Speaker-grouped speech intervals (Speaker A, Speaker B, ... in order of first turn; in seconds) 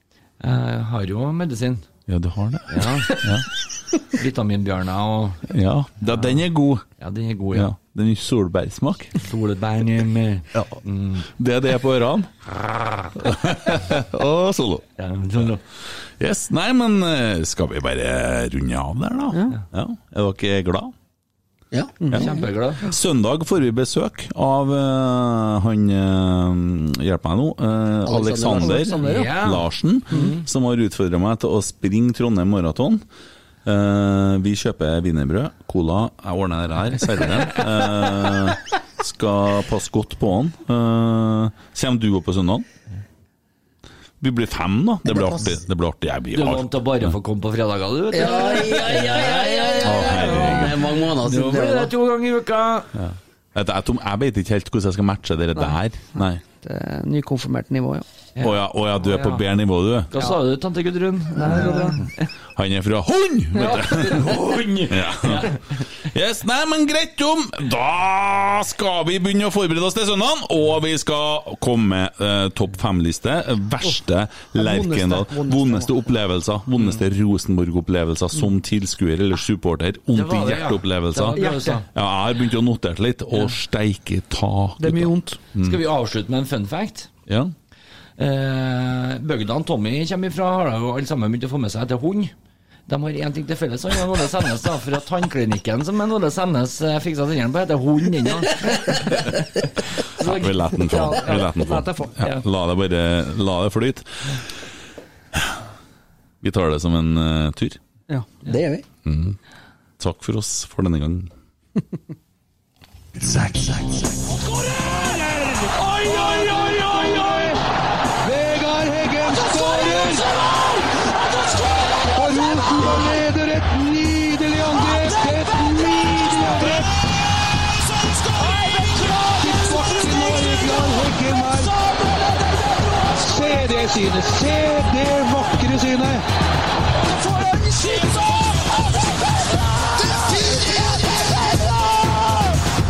Speaker A: 0.4-1.9, 2.7-3.2, 4.0-5.5, 7.0-7.7, 9.2-11.3, 12.6-13.1, 15.0-15.6, 22.1-22.9, 29.0-30.4, 46.3-52.9, 58.4-59.4, 60.1-62.1, 63.6-65.5, 80.1-81.9, 85.6-87.1, 88.2-92.3, 92.9-99.3, 100.0-100.6, 115.8-117.2
Speaker B: 2.1-3.5, 5.5-6.8, 7.5-9.1, 10.6-12.3, 13.1-14.9, 16.2-20.9, 22.8-33.0, 33.6-42.7, 44.2-47.1, 49.8-50.8, 53.0-56.4, 58.4-60.1, 62.6-64.3, 64.9-65.6, 66.1-85.8, 87.3-87.5, 100.2-104.4, 106.4-107.8, 109.0-109.4, 110.0-111.3
Speaker C: 21.7-22.5, 28.1-29.0, 48.1-51.9, 108.4-108.9
Speaker D: 28.6-29.4, 56.6-58.0, 61.4-62.0, 63.6-64.4, 74.6-75.9, 81.4-81.8, 84.8-85.4, 100.8-102.1
Speaker E: 114.7-115.4, 116.0-117.6, 118.2-136.3, 136.9-142.5